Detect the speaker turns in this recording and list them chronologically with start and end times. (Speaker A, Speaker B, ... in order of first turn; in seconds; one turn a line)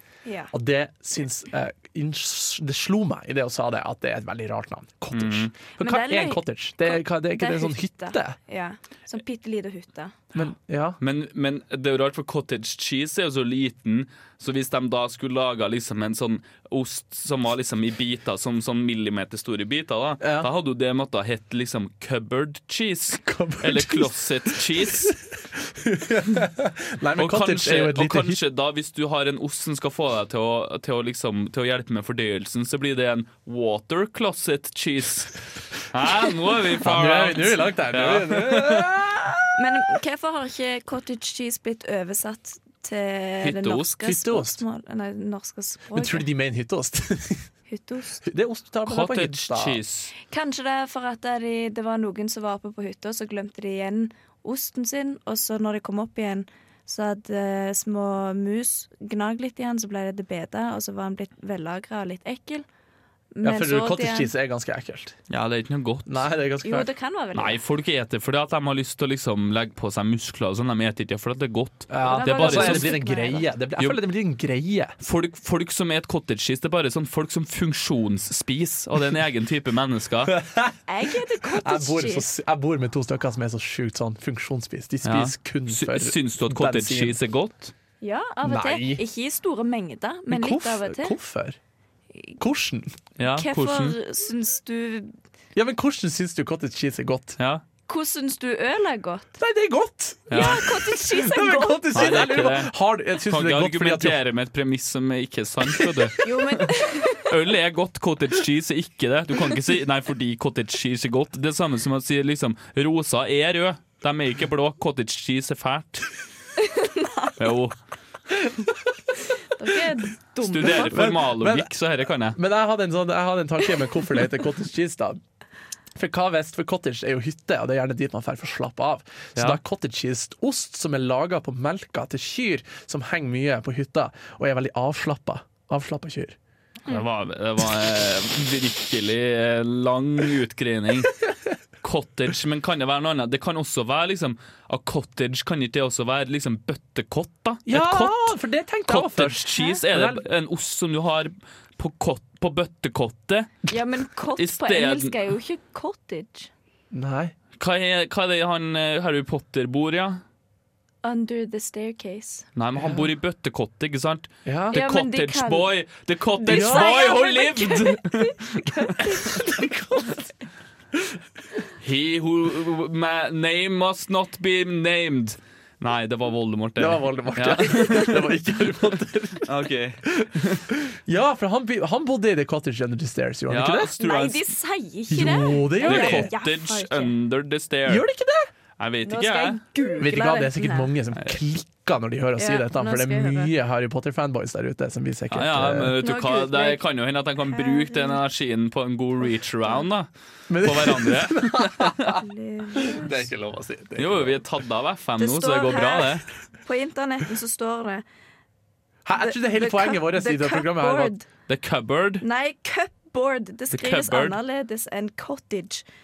Speaker A: 0.2-0.5
Speaker B: 0.5-8.4
Speaker C: 5.1-5.5
Speaker A: 5.8-10.1
Speaker B: 10.3-11.0
Speaker C: 11.0-25.2
Speaker B: 20.2-20.5
Speaker B: 23.2-28.4
Speaker C: 27.2-38.9
Speaker B: 36.8-39.6
Speaker A: 39.5-46.3
Speaker C: 43.4-43.9
Speaker B: 44.0-44.6
Speaker B: 45.9-47.5
Speaker A: 47.7-48.2
Speaker B: 48.2-49.8
Speaker C: 48.9-50.1
Speaker A: 50.3-62.6
Speaker A: 63.4-64.3
Speaker B: 63.4-65.2
Speaker C: 65.3-66.2
Speaker B: 66.1-66.9
Speaker A: 66.6-67.6
Speaker C: 67.3-73.0
Speaker B: 71.9-74.9
Speaker A: 72.0-73.5
Speaker C: 75.0-80.3
Speaker B: 80.2-87.2
Speaker A: 80.9-82.3
Speaker C: 85.0-87.7
Speaker A: 88.0-91.2
Speaker B: 88.4-89.0
Speaker B: 90.3-91.6
Speaker B: 92.4-93.0
Speaker C: 93.2-94.0
Speaker A: 93.3-95.1
Speaker B: 95.5-97.4
Speaker A: 97.9-99.4
Speaker B: 99.4-104.2
Speaker C: 100.3-100.6
Speaker A: 100.3-102.1
Speaker C: 101.9-102.7
Speaker C: 103.2-116.1
Speaker A: 106.2-107.3
Speaker A: 116.6-117.3
Speaker C: 117.4-117.8
Speaker A: 119.5-121.0
Speaker C: 120.4-122.4
Speaker B: 120.6-121.7
Speaker B: 122.3-125.2
Speaker B: 125.9-136.3
Speaker C: 136.9-141.1
Speaker C: 141.8-153.5
Speaker B: 147.7-150.2
Speaker A: 153.7-156.5
Speaker C: 154.3-155.1
Speaker B: 156.9-157.3
Speaker C: 157.6-160.2
Speaker A: 161.0-162.4
Speaker C: 162.6-168.9
Speaker B: 162.8-163.0
Speaker B: 164.4-164.8
Speaker A: 164.7-165.7
Speaker A: 166.4-170.2
Speaker B: 166.5-166.9
Speaker B: 169.0-170.3
Speaker C: 171.8-178.3
Speaker B: 176.8-179.5
Speaker C: 179.4-180.7
Speaker B: 180.0-183.9
Speaker C: 183.5-184.4
Speaker A: 184.0-187.1
Speaker B: 185.1-186.3
Speaker C: 185.8-188.1
Speaker B: 187.8-188.5
Speaker C: 188.8-189.6
Speaker A: 189.0-190.9
Speaker B: 190.0-196.0
Speaker A: 192.4-193.5
Speaker C: 195.3-202.2
Speaker A: 196.0-196.8
Speaker A: 197.4-198.2
Speaker B: 200.5-204.4
Speaker A: 202.1-203.2
Speaker C: 203.9-206.2
Speaker A: 205.2-208.0
Speaker B: 209.0-211.1
Speaker A: 209.2-211.3
Speaker C: 211.5-212.2
Speaker A: 212.2-215.8
Speaker C: 213.7-214.4